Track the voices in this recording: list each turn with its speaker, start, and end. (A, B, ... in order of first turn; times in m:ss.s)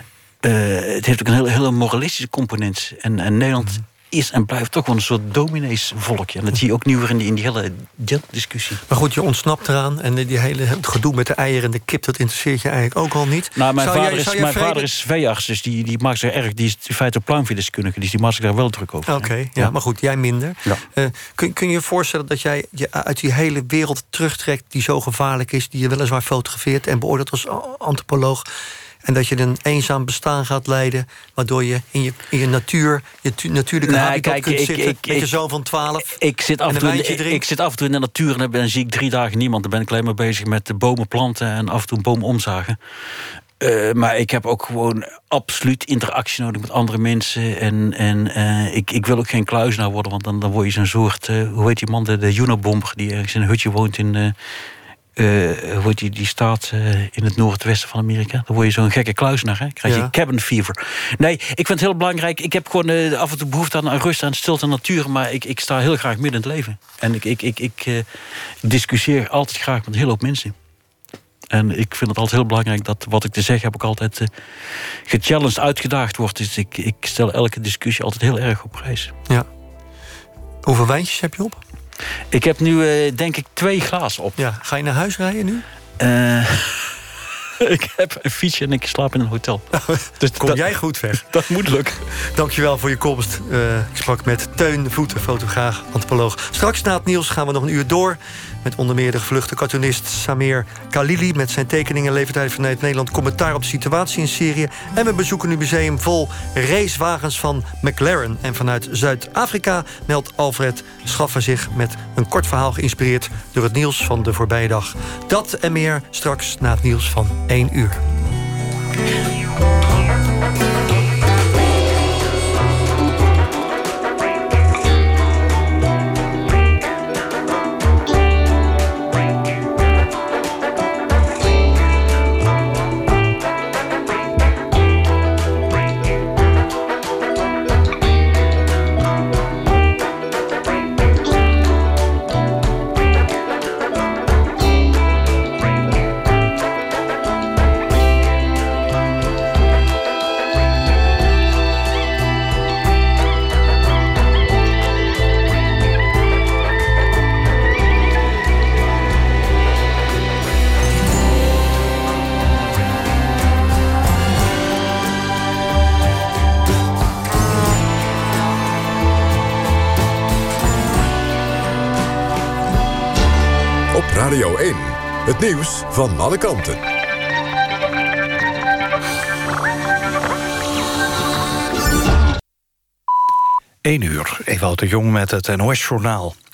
0:00.4-0:08.8 A
0:08.9-0:14.9 B
0:13.6-0:19.7 A
0:19.0-0:28.5 B
0:29.0-0:37.4 B
0:33.8-0:35.3 A
0:36.0-0:42.8 A
0:43.6-0:54.3 A
0:55.2-1:08.0 A
0:59.8-1:00.1 B
1:08.6-1:10.5 A
1:11.5-1:19.1 A
1:20.6-1:21.6 B
1:22.3-1:24.4 A
1:24.4-1:25.6 B
1:26.0-1:26.9 A
1:27.6-1:32.0 A
1:29.9-1:31.3 B
1:32.2-1:58.0 B
2:53.9-2:56.8 C
3:03.8-3:06.4 D